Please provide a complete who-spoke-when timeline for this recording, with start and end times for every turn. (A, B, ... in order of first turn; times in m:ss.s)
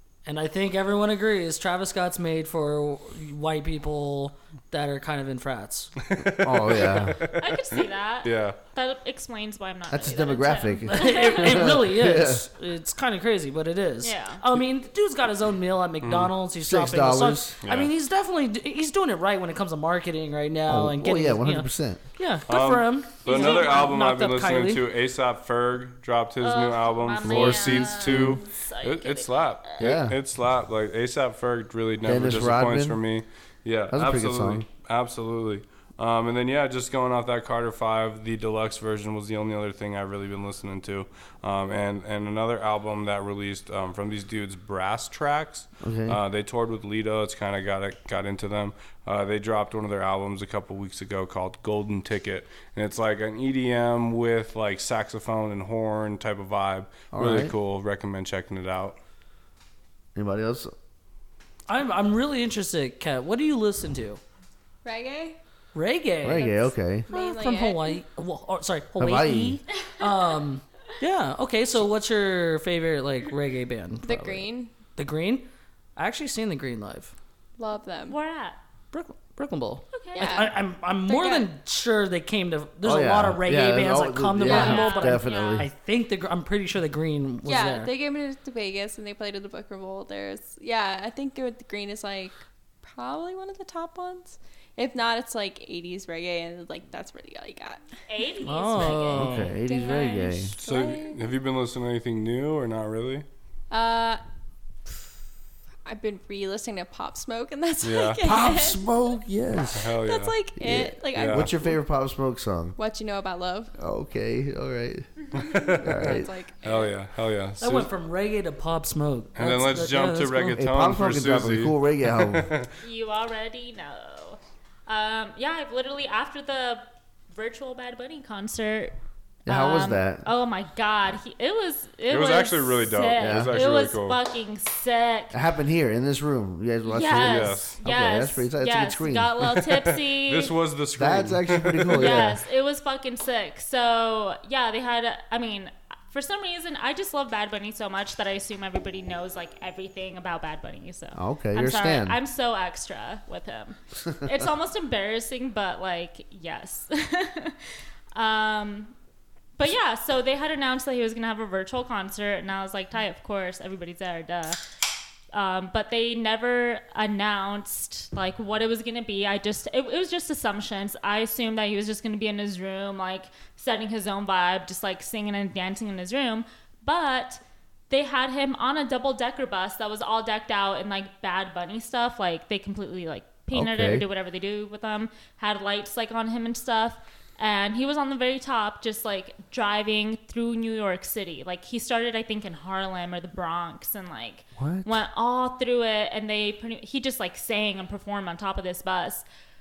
0:00.2-0:05.9 A
0:06.0-0:08.6 B
0:06.4-0:07.2 C
0:07.4-0:11.7 D
0:09.9-0:12.5 C
0:10.9-0:24.8 A
0:14.0-0:14.4 D
0:16.0-0:16.3 B
0:16.6-0:17.6 C
0:17.6-0:17.9 B
0:20.7-0:22.0 C
0:22.5-0:59.0 B
0:23.2-0:24.0 D
0:26.4-0:29.9 D
0:27.2-0:28.4 C
0:29.8-0:30.2 C
0:32.0-0:33.0 C
0:33.9-0:34.7 C
0:45.8-0:46.2 C
0:57.1-0:57.5 C
1:00.2-1:00.7 C
1:01.7-1:04.2 A
1:04.8-1:05.4 E
1:05.7-1:14.4 A
1:06.2-1:07.1 C
1:07.1-1:08.0 E
1:09.0-1:09.6 C
1:14.0-1:14.7 E
1:15.0-1:17.2 A
1:17.6-1:18.2 E
1:18.1-1:18.6 D
1:18.9-1:27.9 A
1:19.9-1:20.4 D
1:20.2-1:20.5 E
1:21.1-1:21.5 E
1:22.8-1:25.7 C
1:24.4-1:25.0 E
1:24.5-1:25.7 D
1:27.4-1:37.8 E
1:38.1-1:39.5 D
1:38.4-1:39.6 A
1:39.1-1:40.6 C
1:39.6-1:41.2 E
1:40.6-1:43.3 B
1:43.7-1:44.2 E
1:45.8-1:48.8 E
1:47.8-1:48.3 B
1:48.2-1:50.0 C
1:49.8-1:50.4 B
1:50.0-1:51.8 E
1:50.6-1:52.8 C
1:51.2-1:51.5 B
1:52.8-1:53.7 E
1:53.8-1:55.1 C
1:55.2-1:55.5 D
1:55.3-1:57.9 B
1:55.4-1:56.7 E
1:55.8-1:56.3 C
1:57.6-2:00.6 A
1:59.4-2:02.8 B
2:00.6-2:02.5 C
2:02.8-2:06.8 D
2:07.4-2:09.0 D
2:09.5-2:10.3 C
2:09.5-2:15.4 D
2:12.1-2:14.2 B
2:13.2-2:13.6 C
2:15.3-2:19.4 C
2:16.8-2:20.5 D
2:17.2-2:17.8 B
2:20.1-2:22.2 B
2:21.0-2:22.4 C
2:22.0-2:38.9 D
2:31.2-2:32.2 C
2:34.0-2:34.4 C
2:39.6-2:44.6 D
2:45.3-3:19.2 D
3:03.5-3:04.1 C
3:14.6-3:15.0 C